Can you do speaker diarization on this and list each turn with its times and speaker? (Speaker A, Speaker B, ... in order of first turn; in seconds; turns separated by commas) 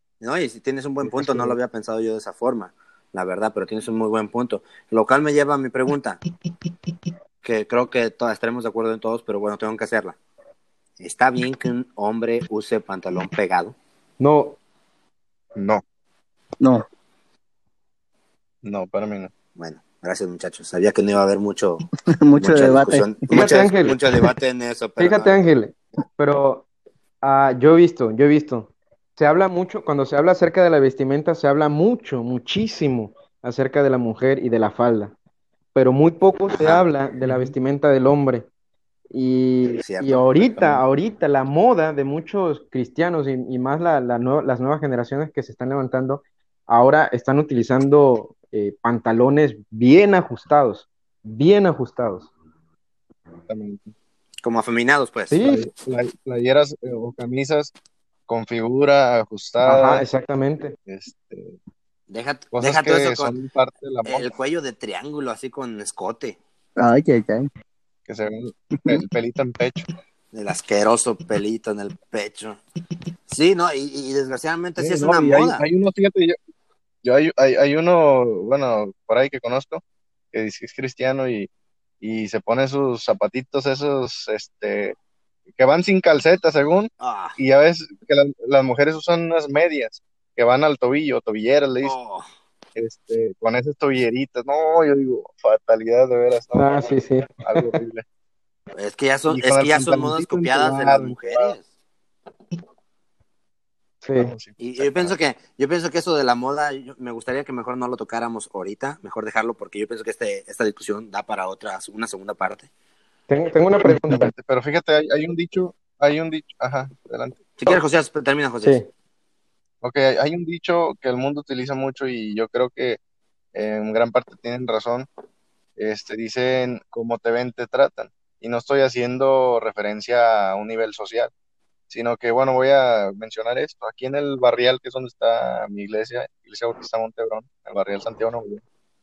Speaker A: 0.2-6.2, Speaker A: 7.4-10.2, Speaker A: 11.0-13.8, Speaker B: 14.2-14.6, Speaker C: 15.6-15.8, Speaker D: 16.6-16.9, Speaker C: 18.6-19.3, Speaker A: 19.6-21.9, Speaker D: 22.1-23.1, Speaker A: 22.4-25.5, Speaker B: 23.3-24.0, Speaker B: 25.0-26.7, Speaker B: 27.2-35.1, Speaker B: 35.8-38.5, Speaker A: 36.6-36.8, Speaker B: 39.1-52.3, Speaker A: 39.8-40.8, Speaker C: 53.5-53.9, Speaker A: 54.4-55.4, Speaker B: 55.3-55.6, Speaker C: 55.4-57.7, Speaker C: 58.3-60.0, Speaker B: 59.6-60.8, Speaker C: 60.9-61.6, Speaker A: 62.1-63.3, Speaker C: 62.5-64.3, Speaker A: 64.0-66.4, Speaker D: 66.8-67.5, Speaker C: 68.1-69.9, Speaker A: 70.3-72.6, Speaker A: 73.3-75.6, Speaker C: 74.8-76.4, Speaker C: 77.0-81.5, Speaker C: 82.0-85.0, Speaker C: 85.6-92.0, Speaker A: 87.0-87.4, Speaker A: 91.8-92.2, Speaker C: 92.8-98.0, Speaker B: 96.6-97.8, Speaker A: 98.8-101.6, Speaker C: 99.3-101.5, Speaker B: 104.0-104.3, Speaker C: 104.2-105.2, Speaker A: 104.6-112.7, Speaker B: 113.3-114.3, Speaker C: 113.9-117.8, Speaker A: 117.6-118.8, Speaker C: 119.8-123.0, Speaker C: 123.5-125.1, Speaker C: 125.8-131.3, Speaker C: 131.9-138.6